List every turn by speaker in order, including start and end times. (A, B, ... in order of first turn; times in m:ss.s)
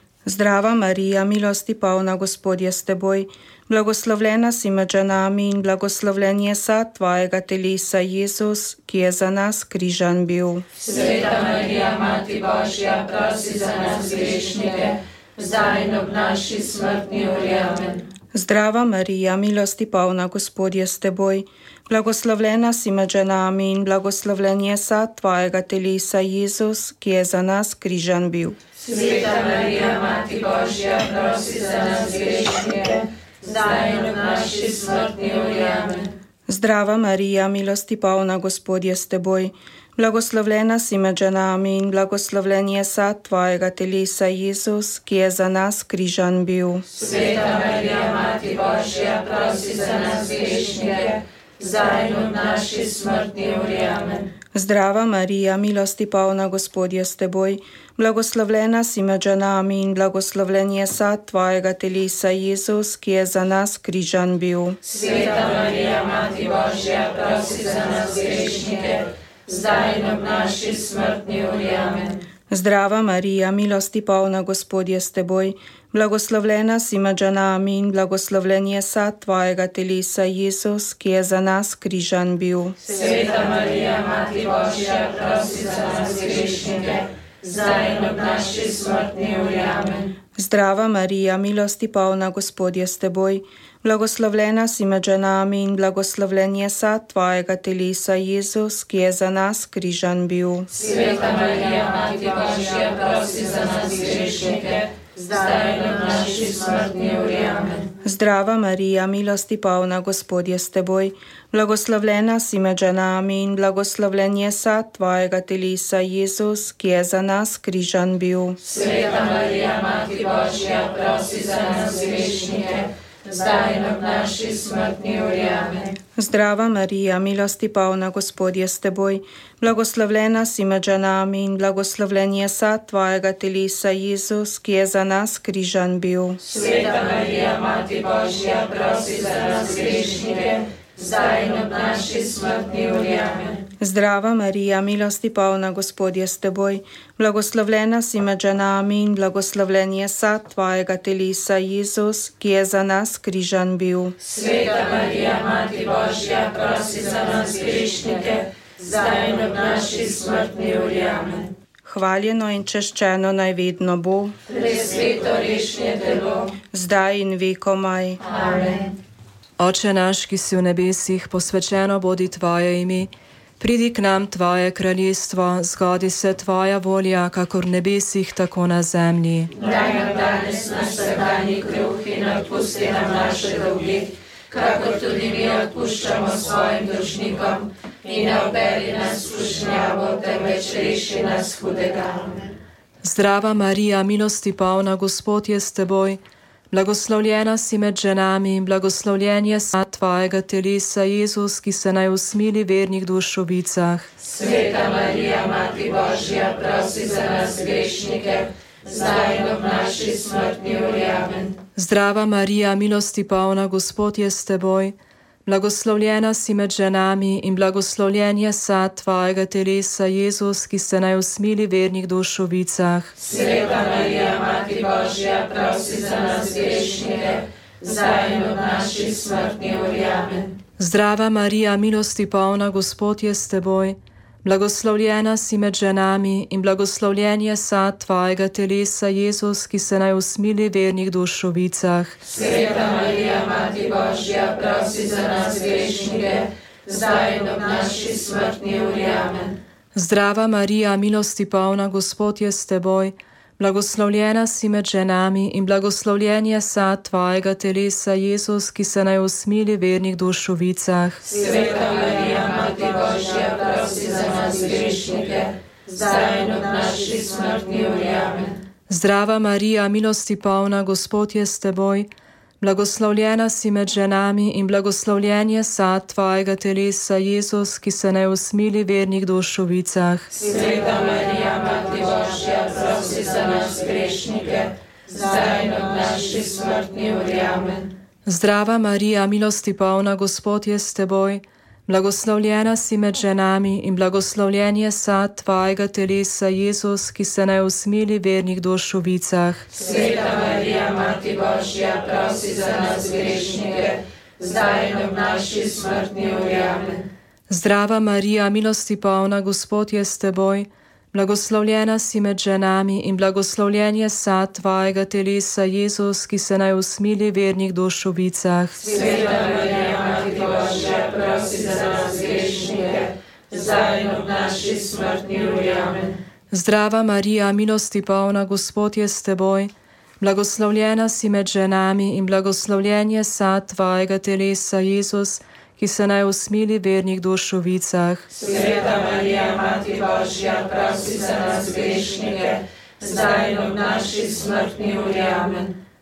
0:00.2-0:10.7 A
0:10.8-0:18.1 B
0:18.3-0:28.6 A
0:28.8-0:36.1 B
0:36.5-0:46.8 A
0:46.9-0:54.3 B
0:54.5-1:04.8 A
1:04.8-1:12.2 B
1:12.5-1:22.8 A
1:22.8-1:30.2 B
1:30.4-1:40.7 A
1:40.7-1:47.9 B
1:48.0-1:58.6 A
1:58.6-2:06.0 B
2:06.2-2:16.4 A
2:16.4-2:23.6 B
2:23.8-2:34.2 A
2:34.2-2:41.5 B
2:41.8-2:44.4 A
2:44.5-2:46.5 B
2:46.7-2:48.2 A
2:48.2-2:49.0 B
2:49.6-2:59.5 C
2:59.6-3:12.5 B
3:13.0-3:24.1 C
3:24.2-3:31.6 B
3:31.8-3:43.1 C
3:43.2-3:50.6 B
3:50.8-4:02.2 C
4:02.2-4:09.6 B
4:09.9-4:21.2 C
4:21.2-4:28.6 B
4:28.9-4:32.1 C
4:32.6-4:40.3 C
4:40.3-4:47.9 B
4:48.2-4:59.6 C
4:59.7-5:07.1 B
5:07.5-5:18.8 C
5:18.8-5:26.2 B
5:26.5-5:38.2 C
5:38.3-5:45.8 B